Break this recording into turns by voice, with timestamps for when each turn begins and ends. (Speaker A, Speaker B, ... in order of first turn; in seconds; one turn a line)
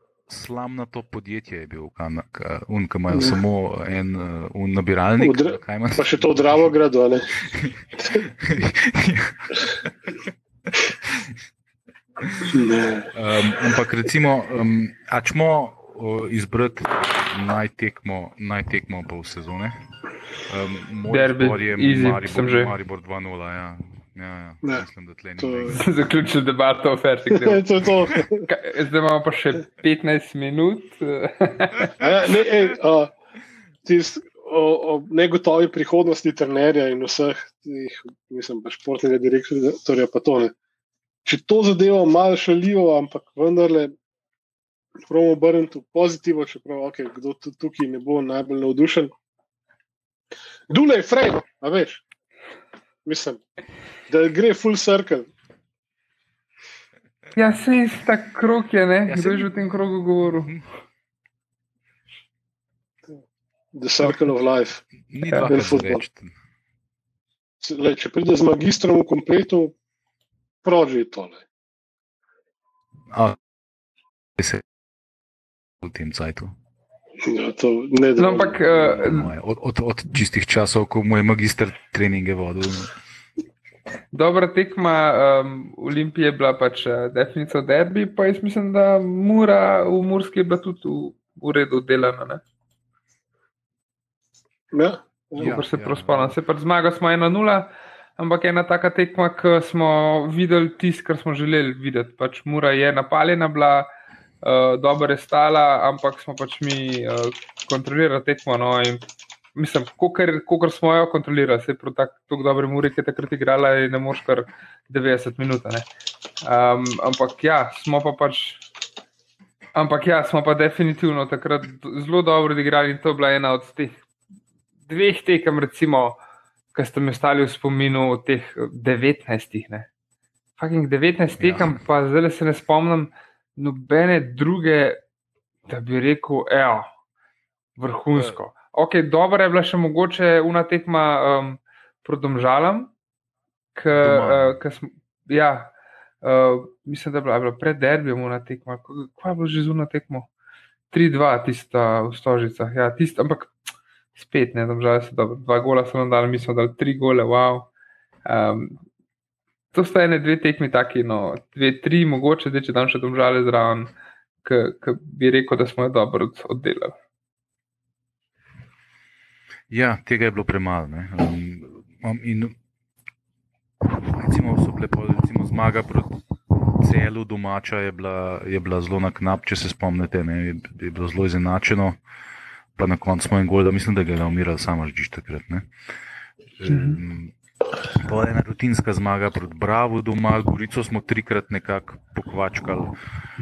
Speaker A: 0.3-6.6
Speaker B: 5.2-7.3
Speaker A: 7.5-10.1
Speaker A: 11.0-11.3
Speaker A: 12.2-12.5
Speaker B: 12.4-13.1
Speaker A: 13.1-19.8
Speaker A: 20.4-25.8
Speaker C: 21.1-22.7
Speaker B: 25.4-25.8
Speaker C: 25.7-27.6
Speaker B: 27.3-28.4
Speaker C: 28.4-32.0
Speaker B: 32.0-33.1
Speaker B: 33.8-40.5
Speaker B: 41.2-43.9
Speaker B: 45.1-49.1
Speaker B: 50.7-52.0
Speaker B: 53.0-53.4
Speaker B: 54.1-55.3
Speaker C: 57.3-60.5
Speaker A: 59.0-59.6
Speaker A: 60.2-60.6
Speaker B: 63.7-64.8
Speaker A: 65.1-66.3
Speaker B: 65.5-66.0
Speaker B: 67.6-69.7
Speaker B: 70.6-71.4
Speaker A: 73.1-73.4
Speaker A: 74.4-74.6
Speaker A: 75.8-76.5
Speaker B: 77.2-78.5
Speaker C: 78.2-79.3
Speaker A: 78.5-82.9
Speaker C: 84.1-92.4
Speaker B: 94.7-95.5
Speaker A: 95.4-96.3
Speaker C: 95.4-103.9
Speaker C: 104.4-109.0
Speaker C: 109.5-115.9
Speaker C: 116.4-118.6
Speaker C: 119.7-124.0
Speaker C: 124.9-126.2
Speaker C: 126.7-129.9
Speaker C: 130.6-135.0
Speaker A: 131.4-131.8
Speaker C: 135.7-136.9
Speaker C: 137.8-142.9
Speaker C: 143.8-150.3
Speaker A: 144.0-144.6
Speaker C: 150.9-153.5
Speaker C: 154.2-157.7
Speaker C: 158.2-158.8
Speaker C: 159.7-163.9
Speaker C: 164.4-166.9
Speaker A: 169.7-172.5
Speaker A: 173.8-176.2
Speaker A: 176.8-182.0
Speaker A: 182.8-185.7
Speaker A: 186.6-187.3
Speaker C: 186.7-187.0
Speaker A: 187.8-192.9